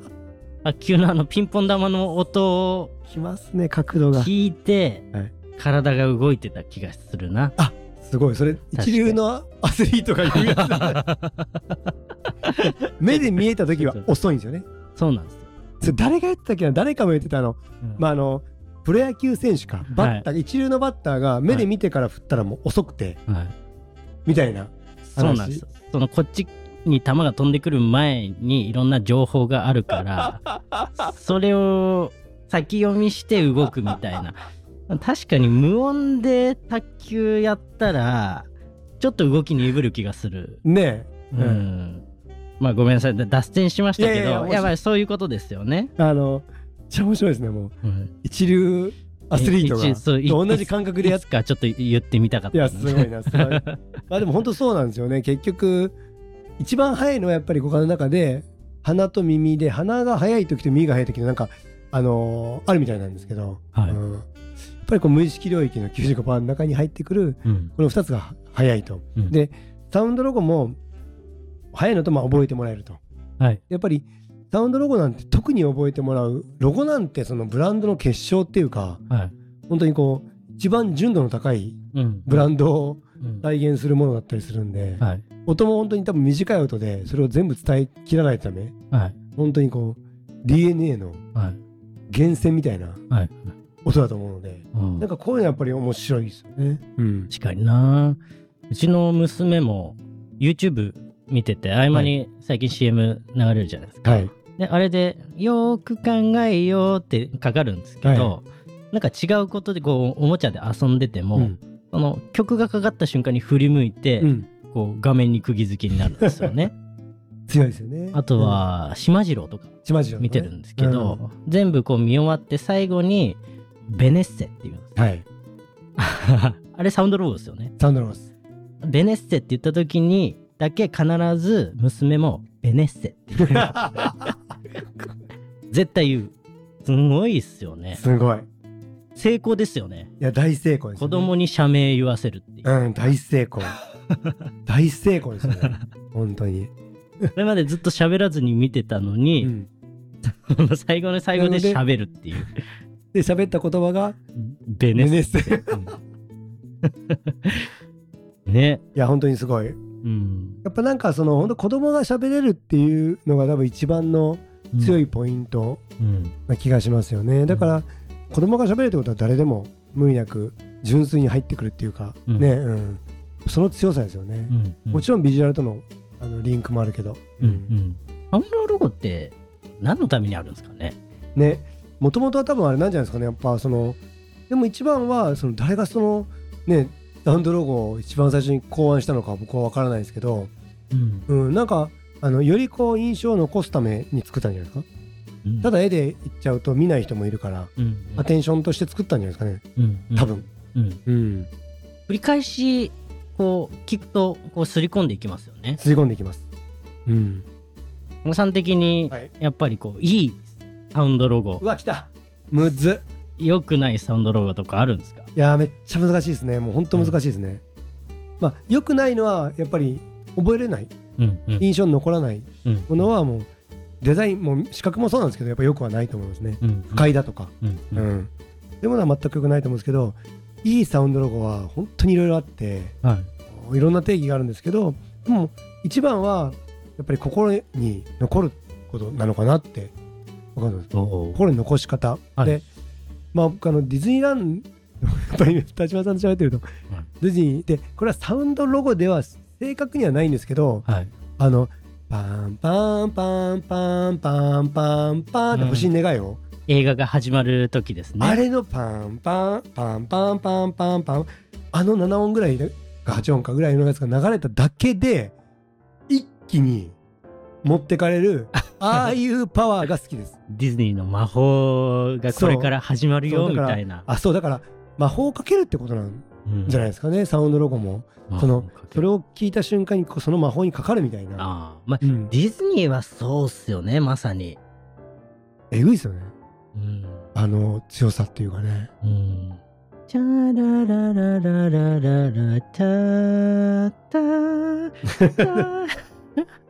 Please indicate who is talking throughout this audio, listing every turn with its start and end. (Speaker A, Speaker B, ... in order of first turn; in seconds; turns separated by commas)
Speaker A: 0.6-2.9, Speaker B: 3.1-4.3, Speaker A: 4.1-5.0, Speaker A: 5.6-7.5, Speaker B: 7.6-11.0, Speaker A: 8.8-9.2, Speaker A: 10.3-11.8, Speaker A: 12.4-13.2, Speaker B: 13.0-14.7, Speaker A: 13.8-14.1, Speaker A: 15.0-15.5, Speaker B: 15.8-23.2, Speaker A: 19.9-20.3, Speaker A: 23.3-23.5, Speaker B: 24.3-25.6, Speaker A: 25.1-30.5, Speaker A: 31.0-38.5, Speaker A: 39.0-40.6, Speaker B: 40.6-41.7, Speaker A: 41.3-42.0, Speaker A: 42.6-45.9, Speaker B: 44.0-44.7, Speaker B: 46.0-51.2, Speaker A: 47.8-48.1, Speaker A: 49.4-53.8, Speaker B: 52.5-56.0, Speaker B: 56.6-64.3, Speaker B: 64.8-70.8, Speaker A: 67.5-67.7, Speaker B: 71.7-73.0, Speaker B: 73.7-79.0, Speaker B: 79.7-88.7, Speaker A: 81.9-82.4, Speaker A: 88.9-89.2, Speaker B: 89.4-91.2, Speaker B: 92.1-93.0, Speaker A: 93.1-93.5, Speaker B: 93.8-97.3, Speaker A: 94.7-95.1, Speaker A: 97.3-116.7, Speaker B: 104.0-104.3, Speaker B: 108.0-108.3, Speaker B: 114.2-114.5, Speaker B: 117.5-118.6, Speaker A: 118.1-125.0, Speaker B: 119.8-121.2, Speaker B: 125.0-125.2, Speaker A: 126.0-127.7, Speaker B: 127.8-128.3, Speaker A: 128.8-134.3, Speaker B: 133.4-134.3, Speaker A: 135.7-138.0, Speaker B: 137.9-138.5, Speaker A: 139.2-140.1, Speaker B: 140.2-141.3, Speaker A: 141.0-142.7, Speaker B: 142.7-143.7, Speaker A: 144.1-144.4, Speaker B: 144.7-146.7, Speaker A: 145.5-145.8, Speaker A: 147.4-149.5, Speaker B: 149.4-149.7, Speaker A: 150.2-152.7, Speaker B: 151.3-151.8, Speaker B: 153.1-154.2, Speaker A: 154.4-155.9, Speaker B: 154.9-155.9, Speaker A: 156.8-157.7, Speaker A: 158.5-158.8, Speaker B: 158.9-159.8, Speaker A: 160.0-160.6, Speaker B: 160.6-165.8, Speaker A: 164.7-165.0, Speaker A: 166.0-166.3, Speaker B: 166.5-177.7, Speaker A: 167.5-167.8, Speaker A: 174.5-175.1, Speaker A: 177.4-181.0, Speaker B: 181.4-190.5, Speaker A: 190.9-191.3, Speaker B: 191.3-194.9, Speaker A: 195.4-195.7, Speaker B: 195.6-199.6, Speaker A: 197.8-198.3, Speaker A: 199.8-201.0, Speaker B: 200.2-200.5, Speaker B: 201.1-201.5, Speaker A: 202.1-205.8, Speaker B: 205.8-206.4, Speaker B: 207.1-207.4, Speaker A: 208.2-211.6, Speaker B: 211.6-213.0, Speaker A: 213.4-215.3, Speaker B: 215.4-217.6, Speaker B: 218.4-220.9, Speaker A: 221.2-221.7, Speaker B: 221.6-223.5, Speaker A: 222.7-223.1, Speaker B: 224.0-228.3, Speaker A: 226.6-227.1, Speaker A: 227.6-228.1, Speaker B: 228.8-233.0, Speaker A: 233.0-233.3, Speaker B: 233.5-239.9, Speaker B: 240.6-242.7, Speaker A: 240.9-241.4, Speaker B: 243.3-246.7, Speaker B: 247.2-250.9, Speaker A: 250.8-251.1, Speaker B: 251.4-256.4, Speaker A: 255.5-255.9, Speaker A: 256.7-258.4, Speaker B: 258.2-265.3, Speaker B: 266.1-267.0, Speaker B: 267.6-270.4, Speaker A: 270.5-274.1, Speaker B: 272.3-272.7, Speaker B: 273.3-281.5, Speaker A: 276.5-276.9, Speaker A: 278.3-279.1, Speaker A: 281.4-284.6, Speaker B: 282.0-282.3, Speaker B: 285.7-286.3, Speaker A: 286.7-287.2, Speaker B: 287.4-288.9, Speaker A: 289.0-296.4, Speaker B: 295.2-295.7